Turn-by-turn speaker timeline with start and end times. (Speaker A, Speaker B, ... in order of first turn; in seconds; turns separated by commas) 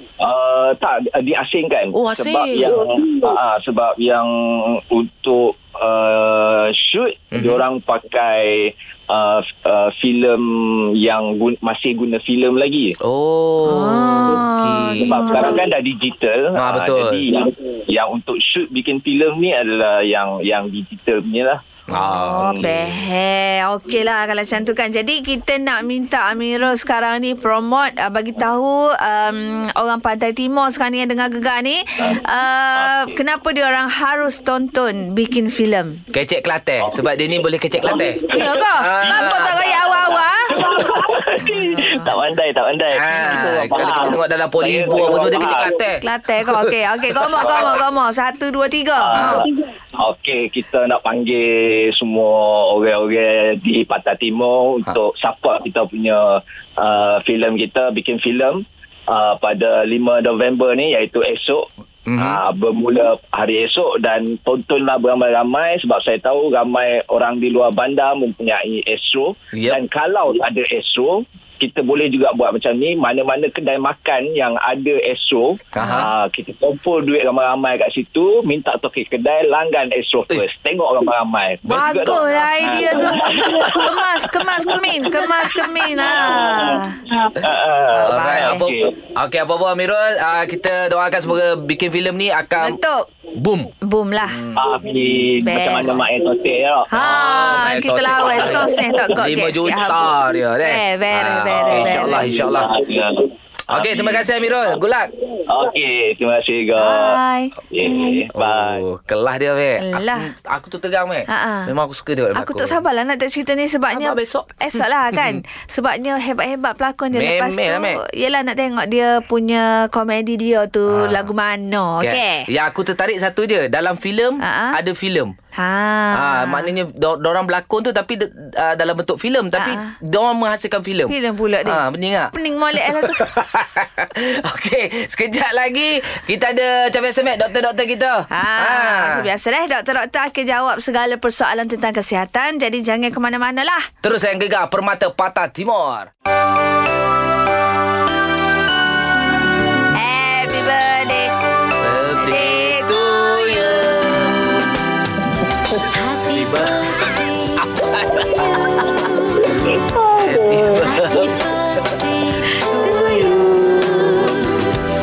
Speaker A: 0.2-13.0, Speaker B: 1.9-2.8, Speaker B: 7.3-7.6, Speaker B: 13.0-15.5, Speaker C: 13.6-15.6, Speaker A: 15.0-21.6, Speaker B: 16.6-17.2, Speaker B: 21.9-23.0, Speaker C: 21.9-36.0, Speaker A: 22.4-22.6, Speaker A: 32.7-33.2, Speaker B: 36.1-39.7, Speaker A: 36.8-37.2, Speaker A: 37.8-45.8, Speaker C: 38.3-40.5, Speaker C: 41.7-42.0, Speaker B: 42.9-46.7, Speaker C: 46.0-49.5, Speaker B: 47.2-47.5, Speaker A: 47.4-47.8, Speaker A: 49.0-89.0, Speaker B: 62.1-62.4, Speaker B: 69.5-69.8, Speaker B: 75.7-76.1, Speaker C: 75.8-76.0, Speaker C: 81.7-87.0, Speaker B: 83.2-83.7, Speaker B: 87.9-92.8, Speaker C: 88.2-88.6, Speaker C: 92.6-93.0, Speaker B: 93.4-93.7, Speaker C: 93.8-94.4, Speaker B: 94.2-94.7, Speaker A: 94.5-97.5, Speaker C: 95.4-95.9, Speaker C: 96.9-100.0, Speaker B: 97.0-102.8, Speaker A: 98.2-99.1, Speaker C: 100.6-102.3, Speaker A: 101.5-104.3, Speaker B: 103.7-105.1, Speaker A: 105.5-107.2, Speaker C: 106.8-107.5, Speaker A: 107.7-108.8, Speaker B: 108.3-112.8, Speaker C: 109.8-110.3, Speaker C: 111.3-111.7, Speaker C: 112.3-122.5, Speaker B: 113.9-115.4, Speaker B: 117.1-118.0, Speaker B: 120.9-121.3, Speaker B: 122.0-125.3, Speaker C: 124.4-124.8, Speaker C: 125.5-126.7, Speaker B: 126.1-131.1, Speaker C: 129.6-129.9, Speaker C: 131.1-131.8, Speaker B: 131.6-139.2, Speaker C: 132.3-133.2, Speaker C: 138.3-143.9, Speaker B: 144.0-146.1, Speaker C: 149.9-151.3, Speaker B: 151.8-154.7, Speaker C: 152.2-154.4, Speaker D: 155.9-157.6, Speaker B: 156.3-157.0, Speaker B: 157.6-158.9, Speaker D: 158.2-159.6, Speaker B: 160.2-161.4, Speaker D: 160.7-164.7, Speaker C: 162.8-163.7